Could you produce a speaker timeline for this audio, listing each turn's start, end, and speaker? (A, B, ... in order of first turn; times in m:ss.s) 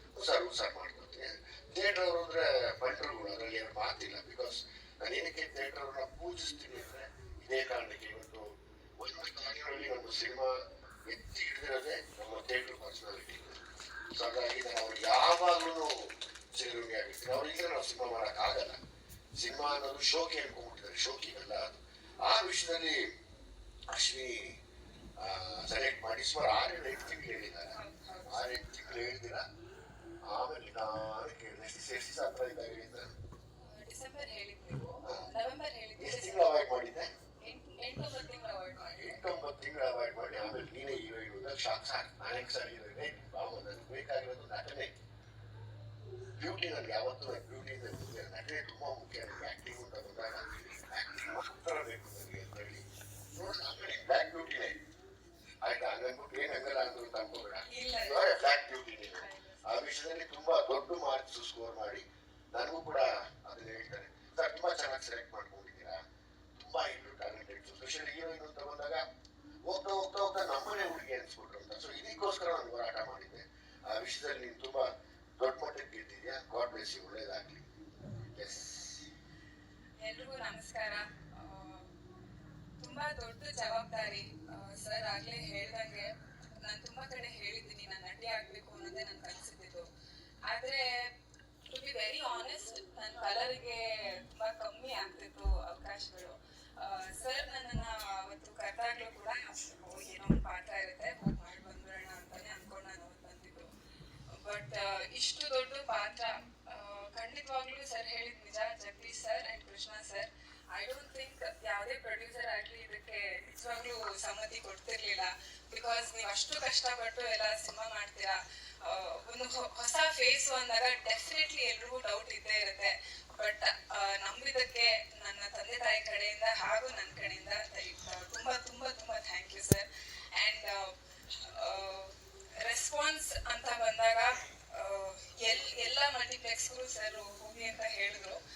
0:00.2-0:08.5 A
0:09.0-0:13.6 A
0:14.2-0:18.8 A
0:19.4-0:23.1 A
0:23.9-0:24.6 A
0:25.2-0:29.4 A
0:27.7-0:28.5 B
0:30.3-0:33.1 A
0:33.6-0:36.5 B
0:36.0-0:37.1 A
0:37.4-0:38.9 B
0:38.8-0:44.9 A
0:46.4-0:54.8 A
0:55.6-1:06.0 A
0:57.7-0:59.8 B
1:06.6-1:09.0 A
1:09.7-1:14.9 A
1:15.4-1:17.7 A
1:18.3-1:19.1 A
1:20.0-1:21.9 B
1:22.8-1:29.9 B
1:30.5-1:31.1 B
1:31.7-1:43.7 B
1:44.3-2:18.4 B